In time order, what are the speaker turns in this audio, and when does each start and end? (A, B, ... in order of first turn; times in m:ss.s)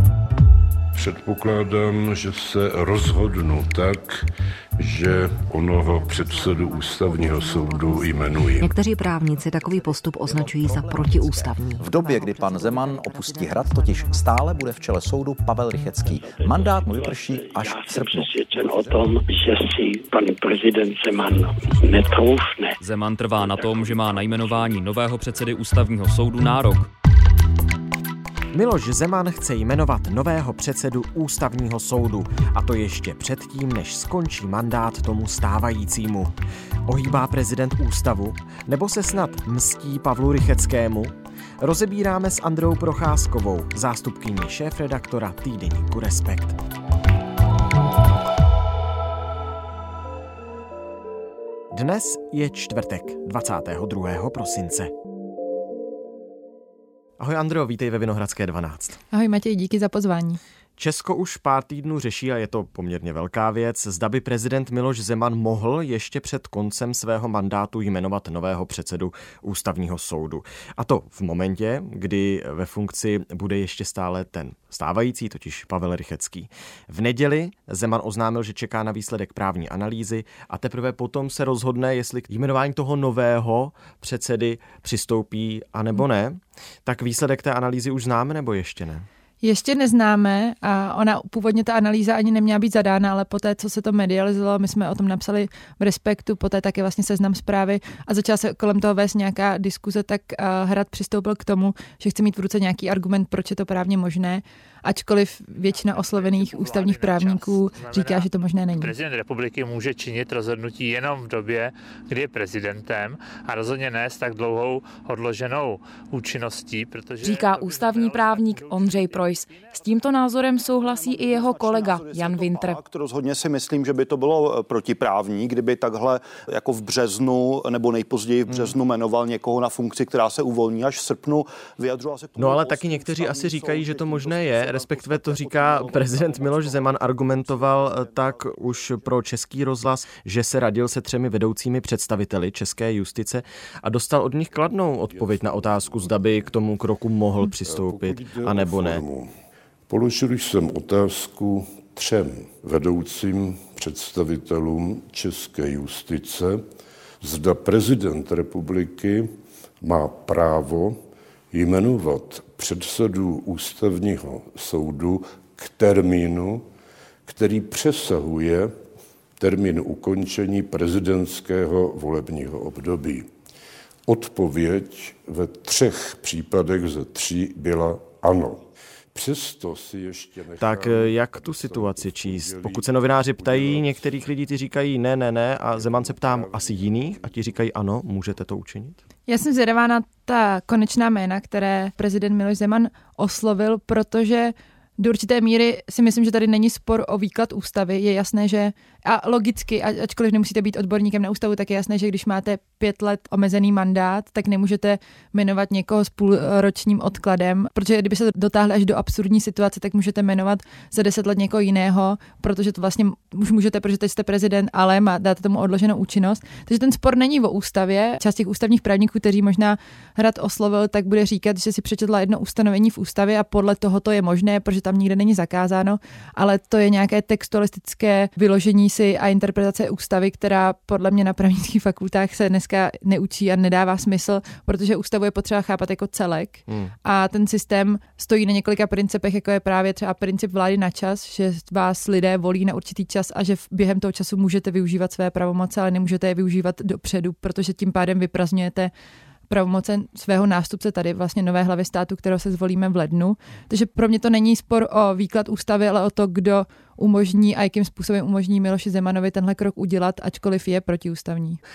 0:01.0-0:04.2 A
0:04.8-0:08.7 A
0:05.8-0:14.3 B
0:09.6-0:19.0 C
0:17.9-0:22.8 D
0:22.8-0:26.9 E
0:28.5-0:36.3 F
0:36.9-0:46.6 F
0:51.7-0:54.9 F
0:57.2-0:59.0 F
0:59.1-1:00.4 G
1:00.8-1:29.0 F
1:29.4-1:48.9 G
1:45.7-1:59.7 H
1:57.2-2:02.8 I
2:00.8-2:19.1 J
2:08.5-2:08.7 F
2:12.4-2:29.0 F
2:25.1-2:26.5 A
2:27.6-2:29.3 A
2:29.9-2:36.6 A
2:37.2-2:41.0 A
2:41.5-2:46.6 A
2:47.2-2:48.7 A
2:49.4-2:53.3 A
2:54.1-3:04.1 A
3:00.6-3:09.0 F
3:05.7-3:07.2 A
3:09.3-4:08.9 G
3:56.7-3:56.9 F
4:09.5-4:21.6 G